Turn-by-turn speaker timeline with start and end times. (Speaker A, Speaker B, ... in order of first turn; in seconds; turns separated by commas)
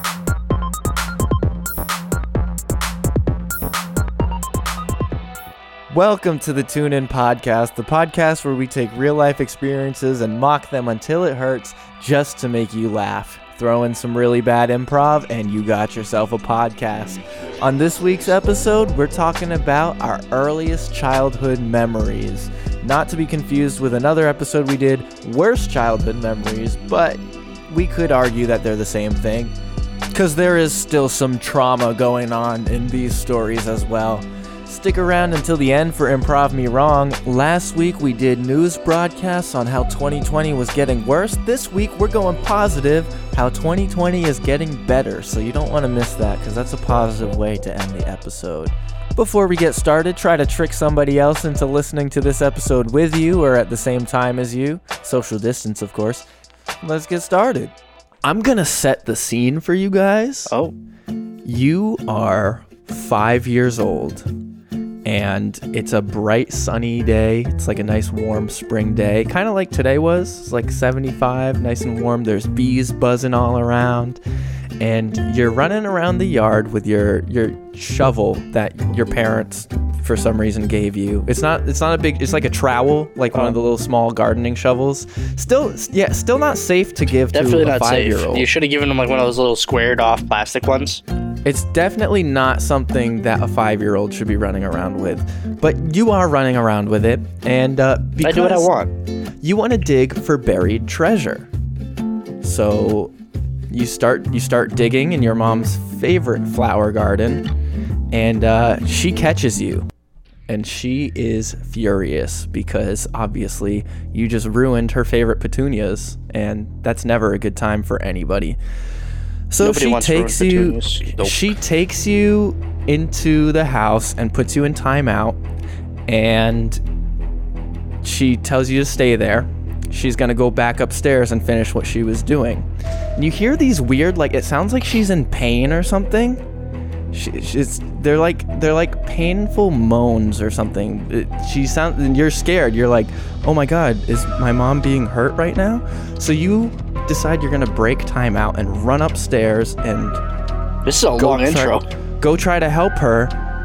Speaker A: 5.9-29.5, Speaker A: 30.1-56.3, Speaker A: 56.8-60.5, Speaker B: 60.5-60.7, Speaker A: 61.5-64.3, Speaker A: 65.0-74.2, Speaker A: 74.8-88.5, Speaker B: 87.3-91.0, Speaker A: 91.5-98.7, Speaker B: 98.2-98.9, Speaker A: 99.4-101.5, Speaker A: 102.4-103.1, Speaker A: 103.7-107.5, Speaker A: 108.1-109.9, Speaker A: 110.5-118.6, Speaker A: 119.5-125.4, Speaker B: 119.6-121.4, Speaker A: 126.1-126.8, Speaker A: 128.0-136.4, Speaker A: 137.1-150.2, Speaker B: 150.8-151.8, Speaker A: 151.2-153.3